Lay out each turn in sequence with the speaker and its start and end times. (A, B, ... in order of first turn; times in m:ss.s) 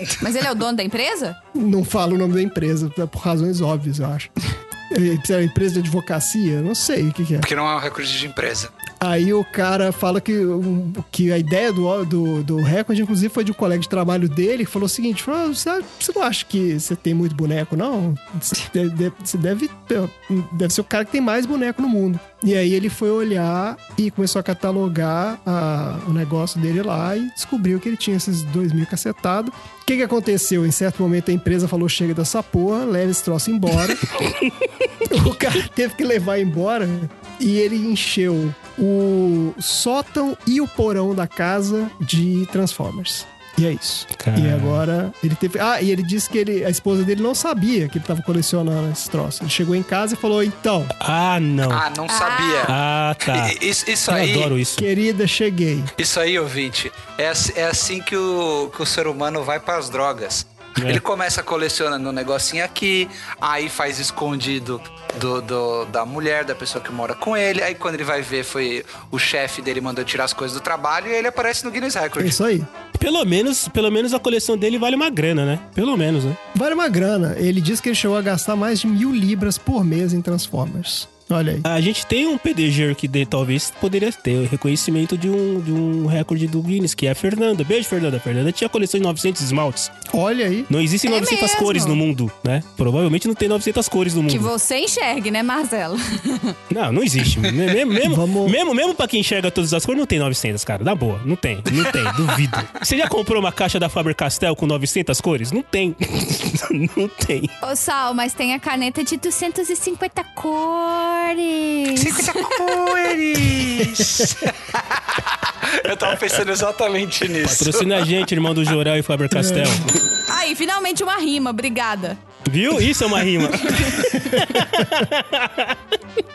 0:00.2-0:01.4 A
0:01.5-0:04.3 B
0:04.9-0:07.5 B
0:07.4-0:08.7 C
0:09.0-0:34.1 B
0:35.0-0:50.9 B
0:44.2-0:44.8 D
0:51.0-0:51.9 D
0:51.7-0:54.5 C
0:52.1-0:52.8 A
0:52.7-0:54.9 D
0:54.8-0:55.9 B
0:56.0-1:12.4 C
1:12.2-1:12.7 B
1:13.0-1:16.4 D
1:16.6-1:21.7 B
1:21.7-1:29.9 D
1:30.1-1:30.7 B
1:30.7-1:34.5 D
1:31.1-1:32.0 A
1:34.3-1:36.6 A
1:36.7-1:47.5 D
1:38.0-1:38.6 B
1:47.6-1:52.5 A
1:51.9-1:58.1 C
1:57.4-2:00.0 D
1:59.3-1:59.9 B
2:00.3-2:02.2 A
2:02.5-2:05.8 D
2:03.6-2:03.9 A
2:04.1-2:04.9 B